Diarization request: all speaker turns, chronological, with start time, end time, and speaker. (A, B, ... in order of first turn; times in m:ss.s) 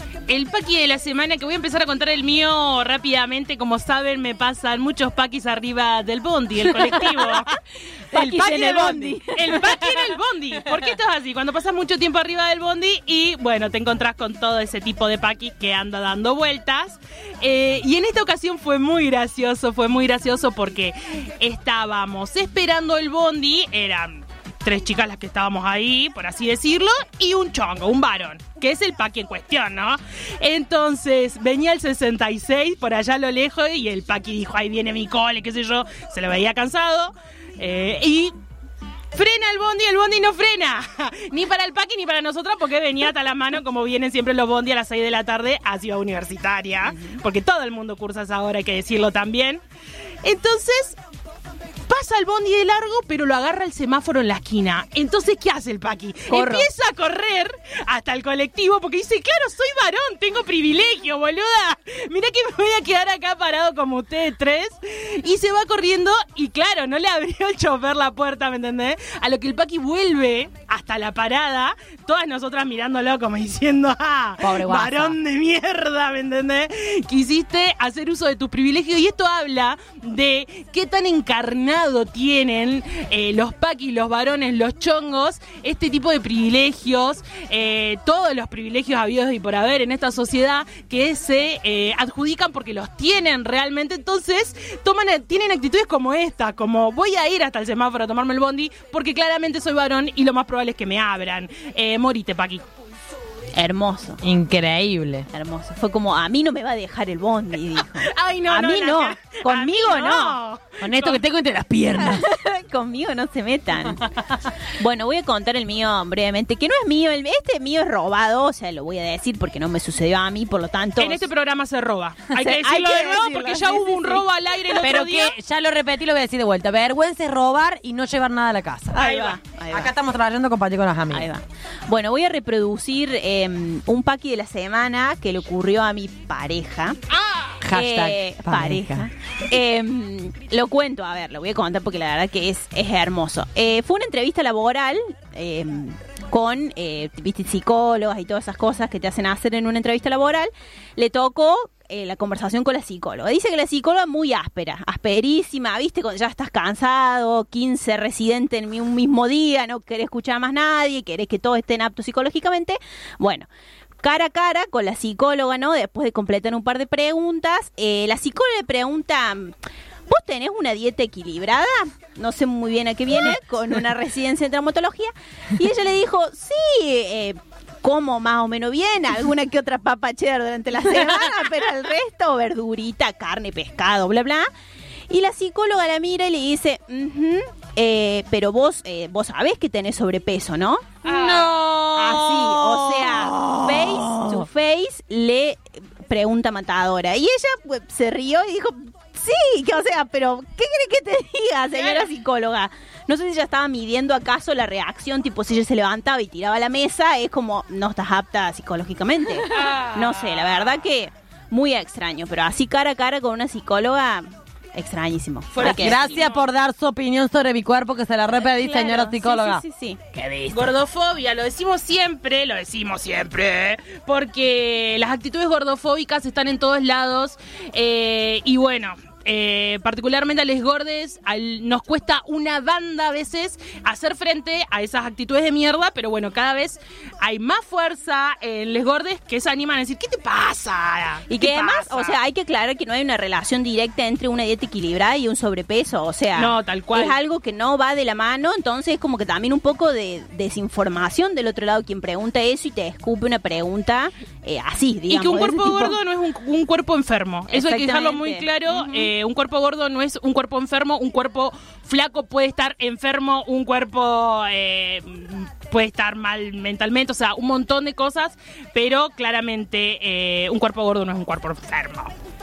0:00.3-0:07.5 A
0:08.1-0:09.2 B
0:08.1-0:09.6 C
0:08.1-0:38.4 A
0:39.1-0:49.6 A
0:50.2-0:51.0 A
0:51.9-1:42.6 A
0:56.3-0:56.7 C
1:14.4-1:15.2 B
1:43.5-1:44.2 C
1:44.2-1:45.3 B
1:45.3-1:50.4 C
1:47.8-1:51.2 A
1:50.8-1:52.3 B
1:52.0-1:54.1 C
1:54.8-2:01.3 C
2:01.0-2:05.4 A
2:02.4-2:04.2 B
2:04.8-2:11.3 B
2:09.0-2:09.4 A
2:09.0-2:09.9 C
2:11.1-2:17.0 C
2:17.6-2:19.1 B
2:17.7-2:43.5 C
2:44.0-2:49.6 C
2:50.1-3:04.5 C
3:05.1-3:11.0 C
3:11.0-3:11.7 A
3:11.1-3:14.5 B
3:11.9-3:36.1 C
3:21.8-3:22.1 A
3:29.5-3:30.9 A
3:35.5-3:36.4 A
3:35.6-3:39.6 B
3:38.4-3:40.0 C
3:40.2-3:40.7 B
3:40.2-4:02.2 A
4:01.3-4:16.0 C
4:06.3-4:07.2 A
4:15.1-4:32.1 A
4:17.5-4:19.1 C